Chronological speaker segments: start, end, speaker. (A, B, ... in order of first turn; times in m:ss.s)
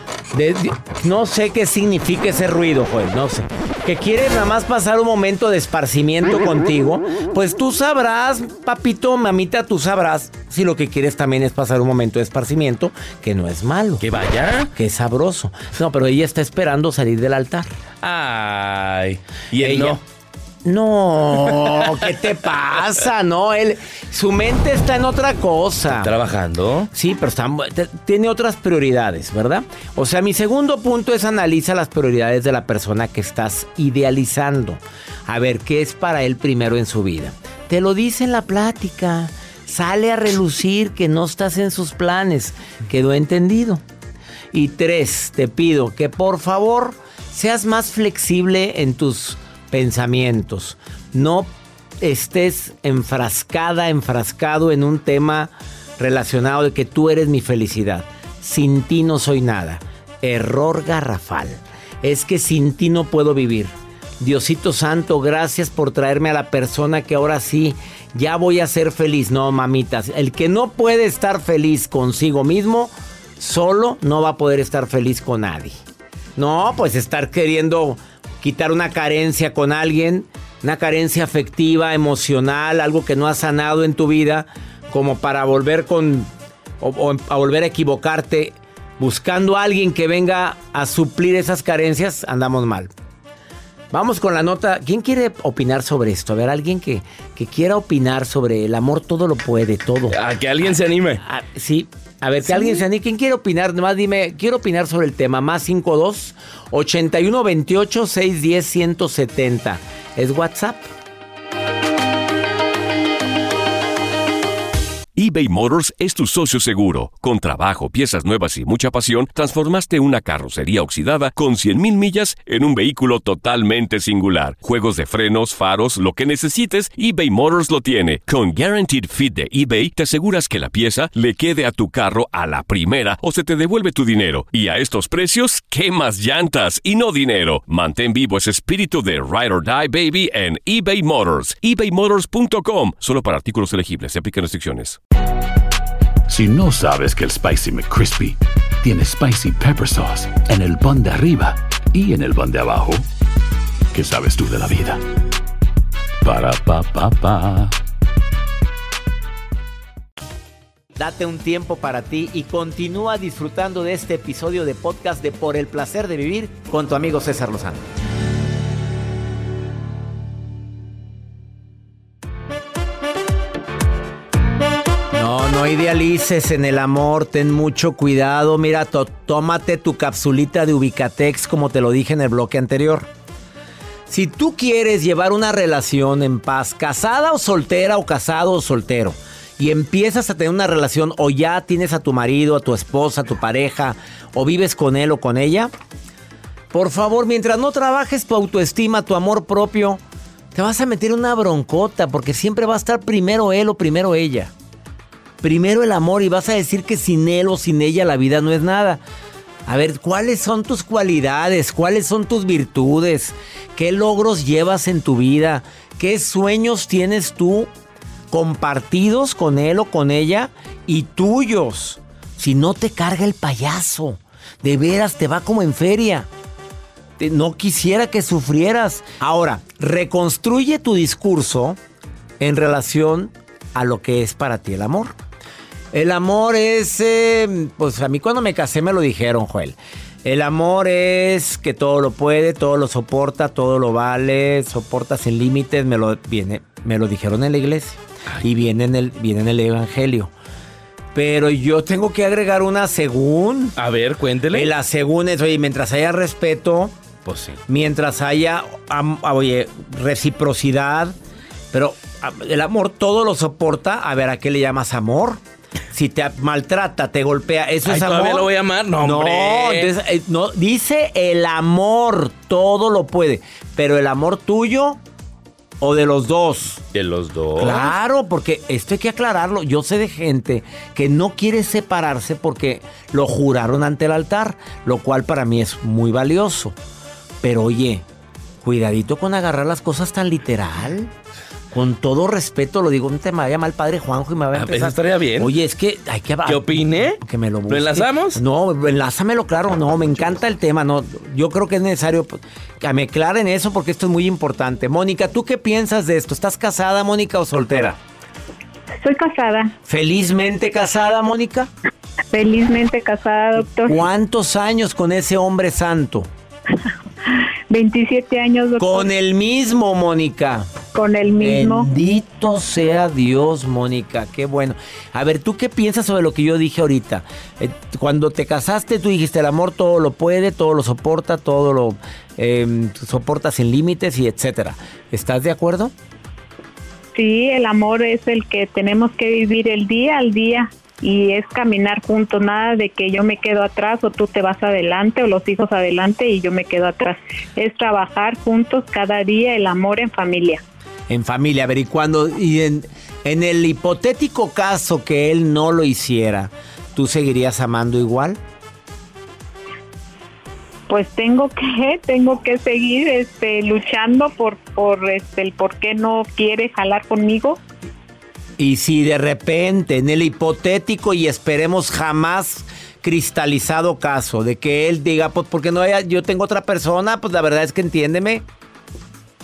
0:00.3-0:14.0 A
0:14.0-0:14.7 B
0:14.7-0:17.7 A
0:18.0-0:20.0 B
0:19.6-0:20.0 A
0:20.6-0:26.1 A
0:21.5-0:21.9 B
0:26.0-0:26.9 B
0:26.9-0:43.8 A
0:44.5-0:51.5 A
0:52.0-1:15.8 A
1:16.4-1:26.3 A
1:26.8-1:32.9 A
1:33.9-1:40.2 A
1:40.1-1:41.2 B
1:41.2-1:50.9 A
1:55.2-2:25.0 C
2:26.3-2:33.1 D
2:33.9-2:35.0 D
2:36.2-2:37.8 D
2:41.0-2:47.9 A
2:55.1-3:03.1 A
3:04.1-3:15.7 A
3:16.7-3:20.0 A
3:20.5-3:24.5 A
3:25.4-3:29.0 A
3:29.7-3:37.7 A
3:38.3-3:46.3 A
3:47.2-3:51.8 A
3:52.4-3:55.2 A
3:55.9-4:10.3 A
4:11.2-4:13.8 A
4:13.8-4:14.7 B
4:14.5-4:16.9 A
4:17.3-4:17.6 B
4:17.7-4:21.2 A
4:21.7-4:25.4 A
4:25.9-4:35.0 A
4:27.8-4:29.9 B
4:35.8-4:36.8 A
4:36.9-4:37.9 B
4:37.6-4:46.8 A
4:47.4-4:48.0 A
4:48.6-4:51.1 A
4:51.7-5:08.0 A
4:54.5-4:55.5 B
4:56.5-4:58.4 B
5:09.0-5:09.7 E
5:09.9-5:11.7 A
5:12.3-5:14.0 E
5:13.6-5:16.3 A
5:17.7-5:19.1 E
5:18.8-5:20.7 A
5:20.9-5:21.9 E
5:21.4-5:35.9 A
5:37.1-5:50.6 E
5:51.1-5:58.4 A
6:00.9-6:07.6 E
6:08.6-6:18.4 A